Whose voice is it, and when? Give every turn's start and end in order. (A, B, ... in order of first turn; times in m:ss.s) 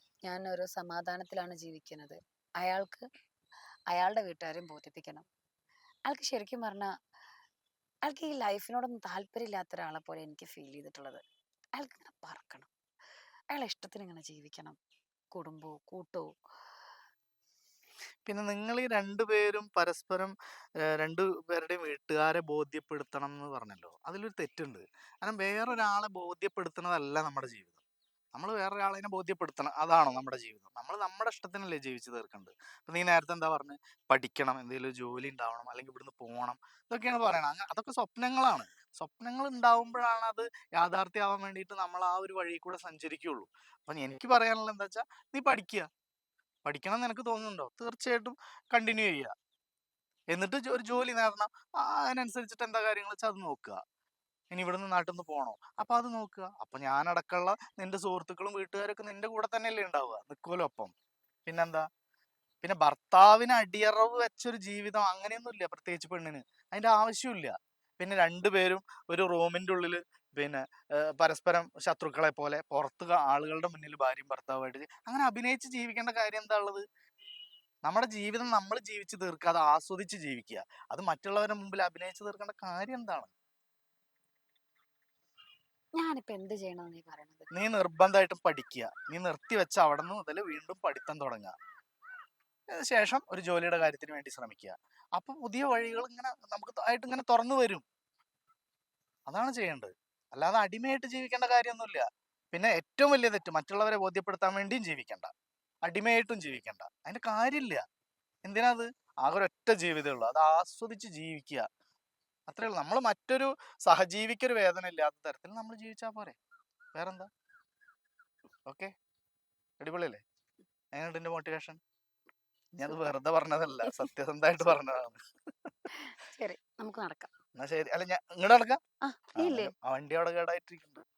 0:00.3-0:03.1 A
0:03.9-0:05.3 A
0:06.1-0:06.9 A
0:08.1-0:11.2 A
0:11.8-0:12.7 A
0:13.5-0:14.8 A
0:15.3-0:16.3 A
0:18.3-0:20.4 B
0:20.9-0:27.8 B
0:28.4-0:45.9 B
0:46.6-0:49.3 B
0:50.3-0:53.8 B
0:54.5-1:00.9 B
1:01.5-1:01.9 B
1:02.6-1:16.8 B
1:17.9-1:23.3 B
1:26.0-1:27.5 A
1:27.5-1:31.6 B
1:32.7-1:37.8 B
1:39.3-1:45.3 B
1:45.9-1:47.8 B
1:48.4-1:51.7 B
1:52.5-1:56.4 B
1:56.9-1:57.3 B
1:58.7-1:58.9 B
1:59.8-2:00.2 B
2:01.0-2:01.8 B
2:02.8-2:05.7 B
2:06.0-2:07.3 A
2:07.6-2:08.8 B
2:09.1-2:09.7 A
2:09.4-2:11.0 B